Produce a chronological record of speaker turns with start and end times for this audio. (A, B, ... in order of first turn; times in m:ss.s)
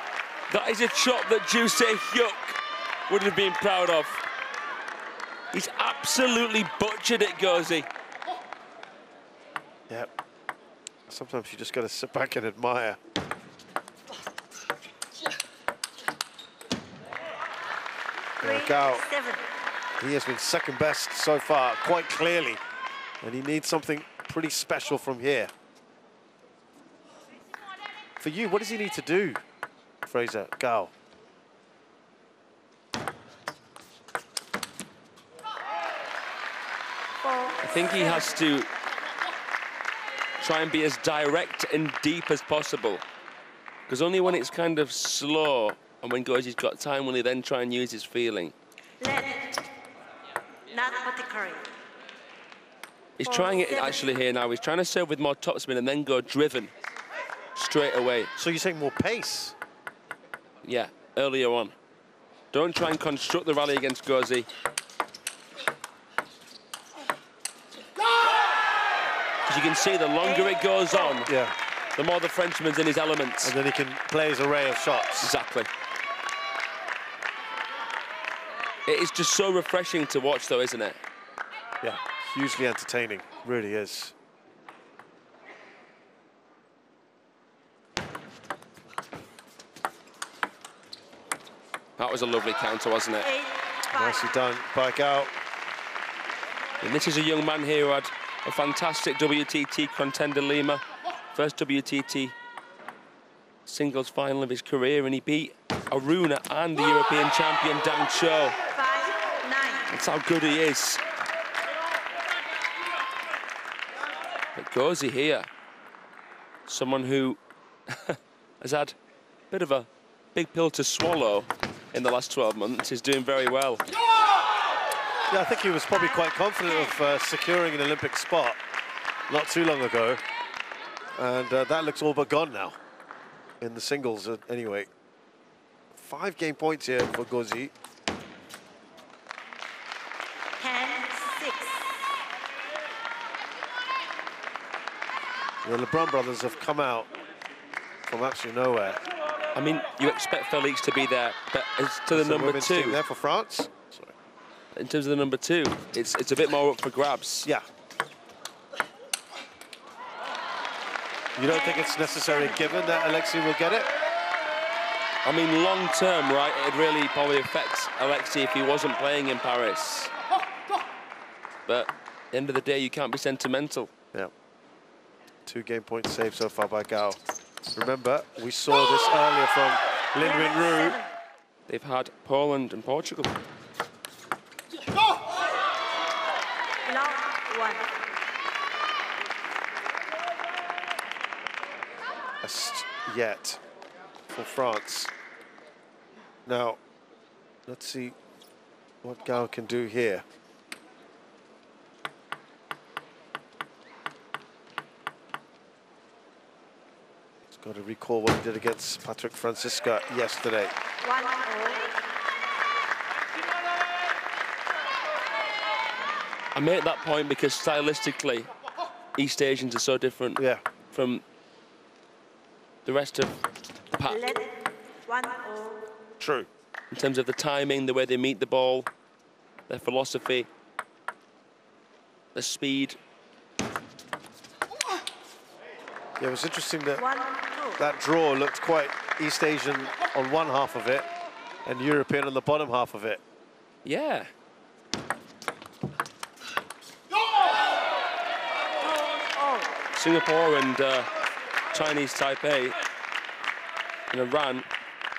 0:00.5-0:04.2 A
0:05.5-0:07.9 A
0:11.1-0:13.0 B
0:18.4-0:19.1 B
0:18.4-0:19.4 C
0:20.0-0:22.6 B
0:23.2-0:25.5 B
0:28.2-0:29.4 B
0:30.0-0:30.9 B
0:37.6-0:38.7 A
0:40.4-0:43.0 A
0:43.9-0:48.5 A
0:49.0-0:49.4 C
0:50.7-0:51.6 C
0:53.2-0:56.7 A
0:57.5-0:58.3 A
0:58.4-0:59.6 B
1:00.6-1:01.7 A
1:02.5-1:04.5 A
1:09.4-1:11.3 A
1:11.2-1:11.5 B
1:11.9-1:13.5 A
1:13.4-1:15.3 B
1:15.2-1:15.7 A
1:18.8-1:21.0 A
1:21.8-1:24.1 B
1:32.0-1:33.4 A
1:33.9-1:35.3 B
1:36.8-1:40.8 A
1:41.3-1:42.3 A
1:43.6-1:48.6 A
1:48.8-1:49.9 C
1:49.9-1:51.0 A
1:54.5-1:55.5 A
1:56.7-1:59.0 A
1:59.5-2:03.8 A
2:05.3-2:08.6 B
2:09.3-2:10.2 B
2:11.2-2:12.8 B
2:13.6-2:14.9 B
2:15.9-2:17.7 B
2:20.6-2:21.9 C
2:25.6-2:27.1 B
2:28.0-2:29.0 B
2:29.5-2:33.0 A
2:32.1-2:34.1 B
2:34.7-2:37.5 A
2:41.4-2:43.9 B
2:45.2-2:50.1 A
2:51.6-2:53.9 A
2:55.4-2:57.2 B
2:57.7-3:01.0 B
3:00.2-3:01.1 C
3:01.7-3:03.4 A
3:06.9-3:07.9 C
3:12.4-3:13.6 B
3:14.3-3:15.1 B
3:16.4-3:16.8 B
3:17.6-3:18.2 B
3:19.0-3:20.2 B
3:27.5-3:30.7 B
3:31.0-3:31.9 C
3:36.5-3:38.5 A
3:39.2-3:41.2 A
3:40.4-3:40.6 B
3:42.8-3:43.4 A
3:43.9-3:44.2 A
3:44.2-3:44.5 C
3:45.0-3:45.8 C
3:46.2-3:46.5 B
3:46.9-3:48.9 A
3:49.7-3:50.5 A
3:52.3-3:53.0 A
3:56.2-3:57.2 B
3:57.1-3:57.8 C
3:57.8-4:01.1 B
4:01.6-4:03.2 B
4:03.8-4:04.3 A
4:09.1-4:09.7 C
4:09.9-4:11.1 A
4:11.7-4:12.8 A
4:14.1-4:14.6 A